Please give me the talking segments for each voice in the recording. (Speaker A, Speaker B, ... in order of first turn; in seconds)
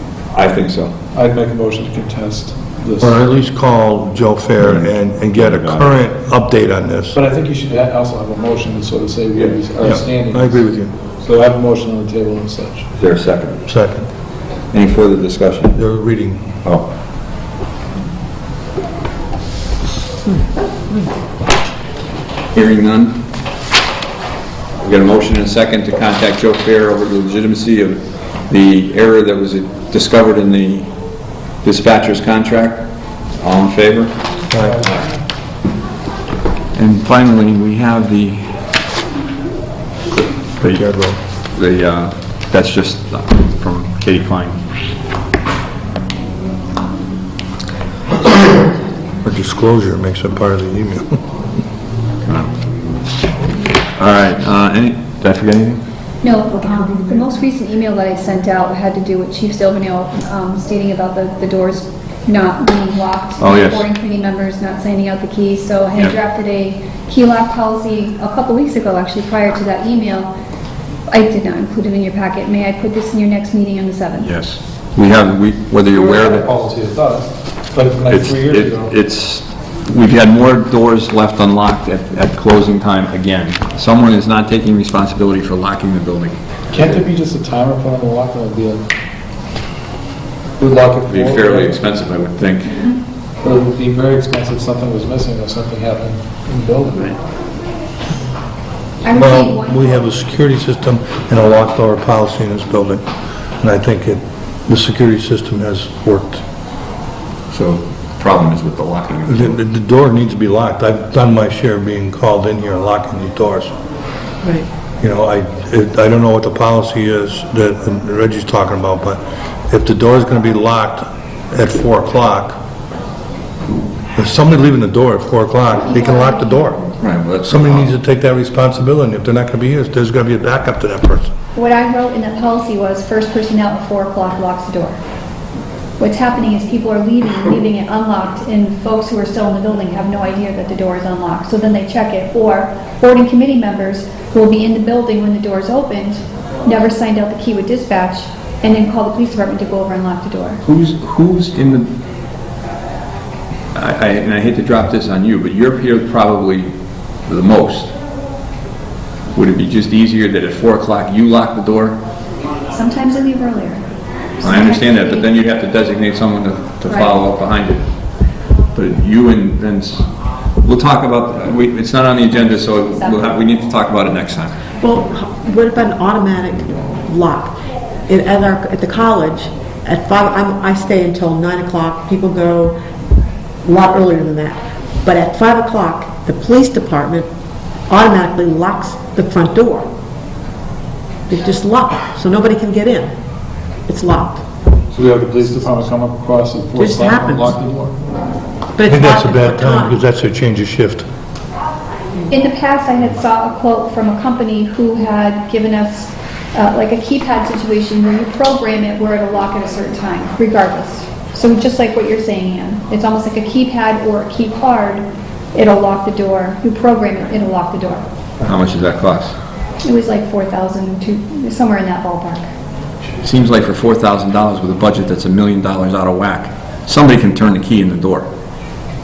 Speaker A: 0.3-0.9, 4.6-6.0, 13.0-13.6, 14.7-15.8, 22.5-23.2, 24.8-30.9, 31.6-32.9, 33.4-34.1, 36.7-38.5, 40.6-40.8, 41.5-44.6, 52.2-52.5, 54.0-55.8, 63.4-63.9, 74.2-76.5, 78.1-87.0, 91.1-92.8, 107.5-109.6, 127.0-127.9, 150.6-151.9, 153.7-156.7, 157.2-157.9, 159.3-162.0, 164.4-167.8, 168.7-170.0, 170.6-174.6, 218.4-219.3, 223.2-228.3
Speaker B: 1.1-3.2, 7.1-12.9, 34.5-35.1, 75.9-78.9, 86.7-88.9, 90.6-91.8, 93.4-97.2, 195.2-198.0
Speaker C: 3.0-7.2, 9.8-10.9, 13.7-14.1, 15.7-16.6, 34.5-34.9, 40.6-41.2, 49.2-51.2, 99.1-103.0, 103.6-106.4, 109.3-113.7, 115.0-122.6, 124.2-126.8, 127.4-131.3, 194.9-195.7, 198.9-201.0
Speaker D: 56.2-70.3, 71.1-74.3, 99.0-100.1, 125.8-127.0, 131.5-135.0, 136.0-150.6, 162.7-163.8, 164.4-165.3, 166.9-167.2, 172.8-173.3, 202.3-218.0, 219.8-222.5
Speaker E: 174.8-177.5, 178.1-182.8, 183.6-187.3, 187.9-189.9, 191.3-193.1, 193.9-194.4, 196.8-197.6, 198.7-200.0